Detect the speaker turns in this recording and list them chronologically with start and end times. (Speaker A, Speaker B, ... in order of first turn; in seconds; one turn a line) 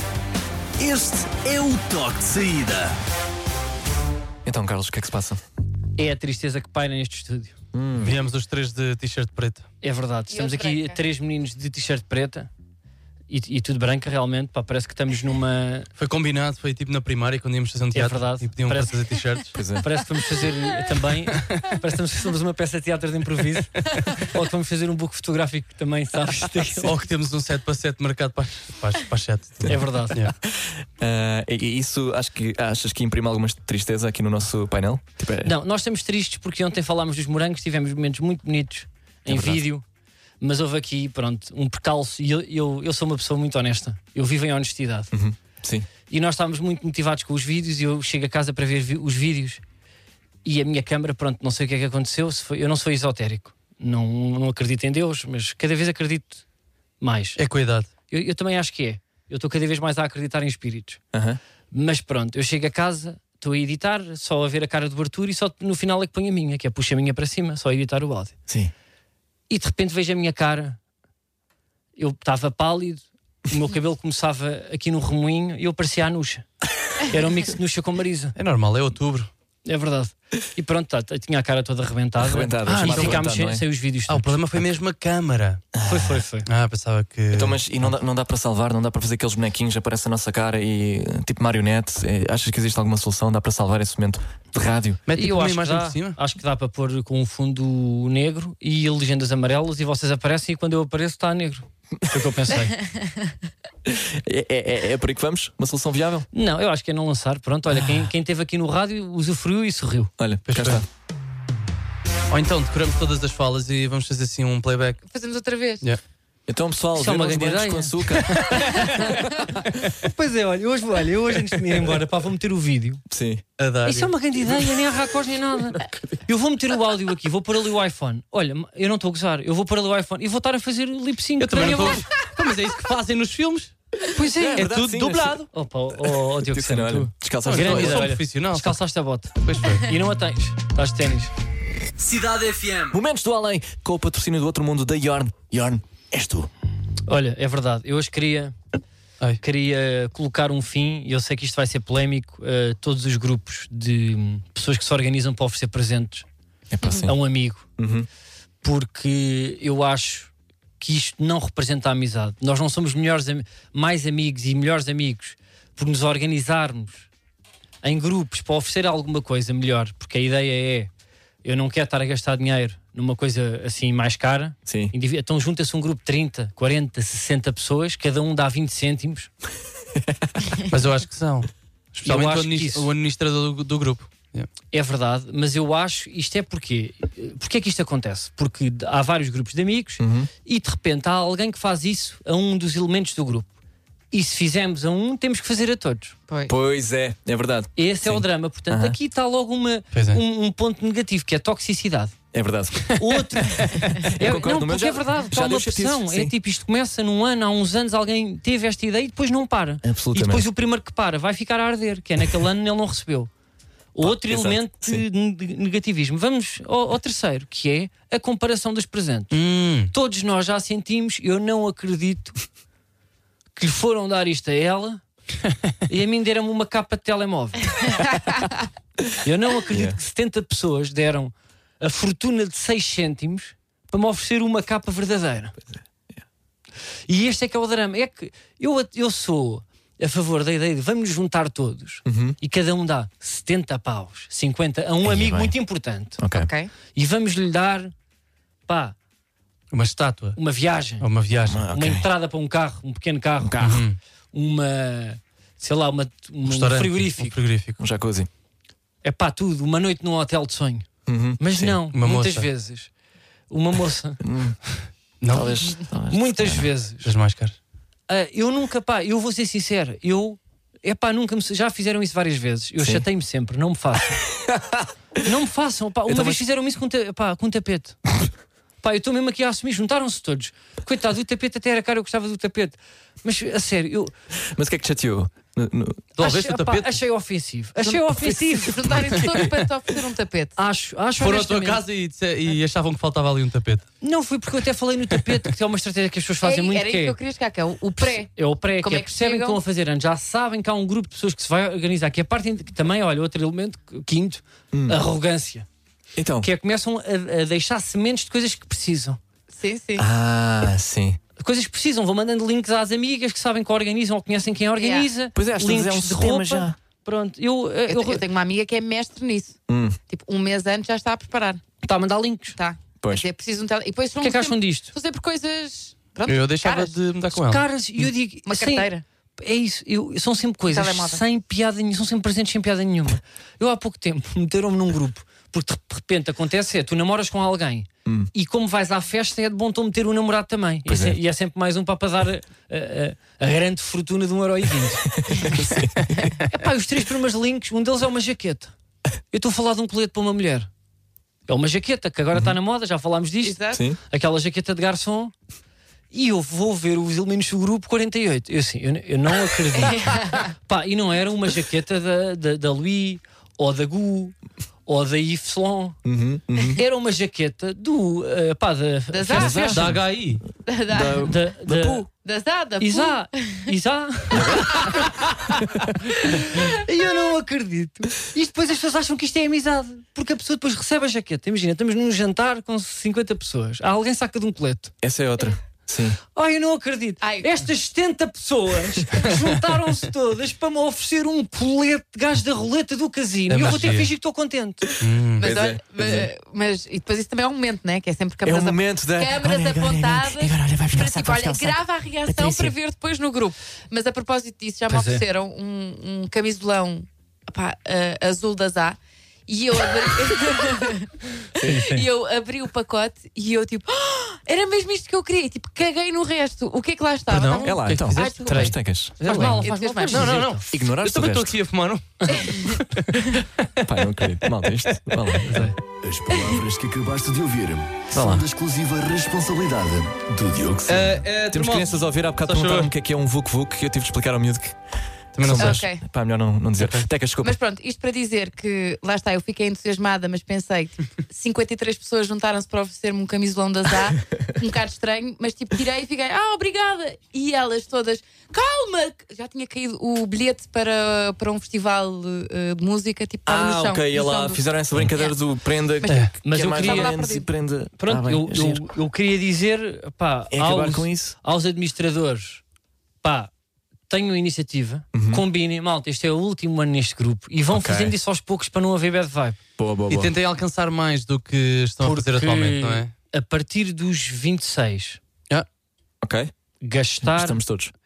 Speaker A: 0.8-3.0
Speaker B: 4.4-5.4
Speaker C: 6.0-7.5
Speaker B: 7.7-8.2
Speaker D: 8.0-9.7
Speaker C: 9.8-12.5
Speaker E: 10.3-11.0
Speaker C: 13.3-15.9
Speaker D: 16.0-19.6
Speaker C: 17.9-19.0
Speaker B: 19.5-19.9
Speaker C: 19.7-26.9
Speaker D: 26.8-30.3
Speaker C: 29.7-30.2
Speaker B: 30.5-35.5
Speaker C: 35.4-39.8
Speaker B: 39.3-39.6
Speaker C: 40.4-45.1
Speaker B: 45.1-45.9
Speaker C: 46.1-49.6
Speaker C: 50.4-56.4
Speaker C: 57.0-57.4
Speaker D: 57.4-57.9
Speaker C: 58.1-61.0
Speaker B: 61.1-61.4
Speaker C: 61.7-68.3
Speaker C: 69.5-70.8
Speaker C: 72.0-76.5
Speaker C: 77.0-78.3
Speaker D: 78.3-79.3
Speaker C: 79.6-84.3
Speaker B: 82.2-83.6
Speaker D: 82.7-83.3
Speaker D: 84.1-85.7
Speaker B: 85.8-86.2
Speaker C: 85.8-86.5
Speaker D: 86.5-87.9
Speaker B: 87.3-95.0
Speaker D: 95.1-96.2
Speaker C: 95.2-103.0
Speaker B: 103.8-106.3
Speaker C: 106.3-110.1
Speaker B: 110.2-110.8
Speaker D: 110.5-110.8
Speaker D: 112.3-115.0
Speaker E: 115.1-115.8
Speaker B: 116.5-119.3
Speaker C: 116.9-123.0
Speaker B: 123.1-123.4
Speaker D: 123.6-124.1
Speaker C: 123.8-132.1
Speaker D: 131.4-133.7
Speaker C: 134.1-134.7
Speaker B: 134.2-135.4
Speaker D: 134.6-135.5
Speaker C: 135.5-141.3
Speaker B: 136.4-138.1
Speaker D: 137.4-138.8
Speaker D: 139.4-139.9
Speaker D: 142.0-143.0
Speaker B: 142.9-146.5
Speaker C: 147.1-148.5
Speaker C: 149.4-156.2
Speaker B: 156.7-157.1
Speaker C: 157.0-157.6
Speaker B: 157.8-158.1
Speaker C: 158.6-167.1
Speaker C: 167.8-170.9
Speaker C: 171.4-179.3
Speaker B: 174.7-174.9
Speaker B: 179.9-180.4
Speaker D: 180.7-184.5
Speaker C: 182.0-182.9
Speaker C: 184.7-193.5
Speaker B: 190.0-190.3
Speaker C: 194.1-196.1
Speaker B: 196.5-199.0
Speaker C: 197.8-202.1
Speaker D: 199.9-200.2
Speaker B: 202.3-202.9
Speaker C: 203.0-213.3
Speaker B: 203.6-206.3
Speaker B: 209.8-210.5
Speaker C: 213.9-219.3
Speaker B: 214.0-215.0
Speaker D: 219.3-219.9
Speaker C: 219.9-222.4
Speaker C: 223.5-225.0
Speaker C: 225.9-228.1
Speaker C: 229.2-235.6
Speaker B: 229.7-230.0
Speaker C: 237.1-246.2
Speaker B: 242.1-242.4
Speaker B: 245.0-245.5
Speaker B: 246.2-246.5
Speaker E: 246.3-246.7
Speaker C: 246.9-247.9
Speaker C: 248.7-248.9
Speaker D: 249.7-250.4
Speaker C: 250.3-251.1
Speaker D: 251.0-251.7
Speaker B: 251.5-252.1
Speaker C: 251.7-253.6
Speaker B: 253.4-253.8
Speaker D: 253.6-254.0
Speaker C: 254.3-257.4
Speaker D: 256.4-257.8
Speaker B: 257.8-258.3
Speaker C: 259.0-260.9
Speaker B: 261.1-261.8
Speaker C: 261.4-262.9
Speaker D: 261.9-262.5
Speaker C: 263.5-264.2
Speaker B: 264.2-264.6
Speaker D: 265.2-265.5
Speaker B: 265.3-266.7
Speaker C: 266.1-267.1
Speaker D: 267.0-267.5
Speaker C: 268.1-274.2
Speaker B: 272.8-273.0
Speaker B: 274.4-274.9
Speaker C: 275.2-278.0
Speaker B: 276.0-276.4
Speaker C: 278.8-284.1
Speaker B: 284.3-286.1
Speaker C: 286.1-288.8
Speaker D: 286.2-287.0
Speaker E: 288.1-290.5
Speaker D: 289.1-289.6
Speaker C: 290.6-291.8
Speaker D: 291.2-293.8
Speaker C: 294.0-297.2
Speaker E: 296.4-299.6
Speaker C: 298.0-305.6
Speaker B: 304.7-305.0
Speaker B: 306.1-306.5
Speaker C: 306.4-309.2
Speaker E: 309.5-310.1
Speaker B: 310.0-311.2
Speaker C: 311.4-318.2
Speaker E: 314.8-315.1
Speaker B: 315.4-316.8
Speaker E: 317.9-319.6
Speaker B: 319.7-320.0
Speaker E: 320.1-321.6
Speaker C: 321.8-322.6
Speaker E: 322.5-326.9
Speaker B: 323.0-323.3
Speaker C: 324.2-324.9
Speaker D: 326.2-327.6
Speaker C: 327.3-345.1
Speaker E: 328.5-329.0
Speaker E: 330.7-331.2
Speaker B: 338.0-338.3
Speaker B: 340.9-341.2
Speaker B: 345.0-346.3
Speaker C: 346.5-348.7
Speaker C: 349.3-350.7
Speaker C: 351.5-355.3
Speaker E: 353.4-353.8
Speaker B: 353.7-354.0
Speaker C: 356.1-366.0
Speaker E: 359.8-360.4
Speaker B: 366.0-366.8
Speaker C: 366.8-369.8
Speaker E: 369.1-369.6
Speaker B: 369.3-370.0
Speaker D: 369.4-370.4
Speaker E: 370.7-371.3
Speaker B: 370.9-372.1
Speaker C: 371.2-372.1
Speaker E: 372.2-373.5
Speaker C: 372.8-375.1
Speaker B: 374.3-376.1
Speaker E: 374.5-374.9
Speaker C: 376.1-384.9
Speaker B: 385.0-386.2
Speaker C: 386.3-394.9
Speaker E: 387.2-387.5
Speaker D: 393.5-394.1
Speaker D: 395.0-395.4
Speaker B: 395.4-396.3
Speaker E: 395.4-420.4
Speaker B: 398.4-402.7
Speaker C: 404.9-405.2
Speaker B: 411.6-412.1
Speaker D: 417.3-423.9
Speaker B: 417.6-419.5
Speaker C: 419.2-420.6
Speaker B: 420.7-421.6
Speaker E: 422.3-422.7
Speaker B: 423.8-425.6
Speaker D: 424.4-425.8
Speaker C: 425.5-425.7
Speaker A: 426.0-430.8
Speaker E: 426.3-426.6
Speaker B: 428.1-429.2
Speaker B: 430.2-434.7
Speaker D: 430.9-432.9
Speaker D: 435.3-435.9
Speaker B: 435.4-437.6
Speaker E: 435.6-436.0
Speaker D: 436.8-437.1
Speaker E: 437.4-455.3
Speaker B: 453.4-458.8
Speaker E: 456.0-457.5
Speaker C: 456.4-457.1
Speaker C: 458.0-462.6
Speaker B: 460.5-461.3
Speaker C: 463.2-463.5
Speaker C: 464.1-469.6
Speaker B: 465.1-465.4
Speaker B: 467.7-468.1
Speaker B: 469.8-470.3
Speaker D: 470.1-473.1
Speaker C: 472.0-475.2
Speaker B: 476.2-476.5
Speaker C: 476.8-477.6
Speaker B: 477.2-477.9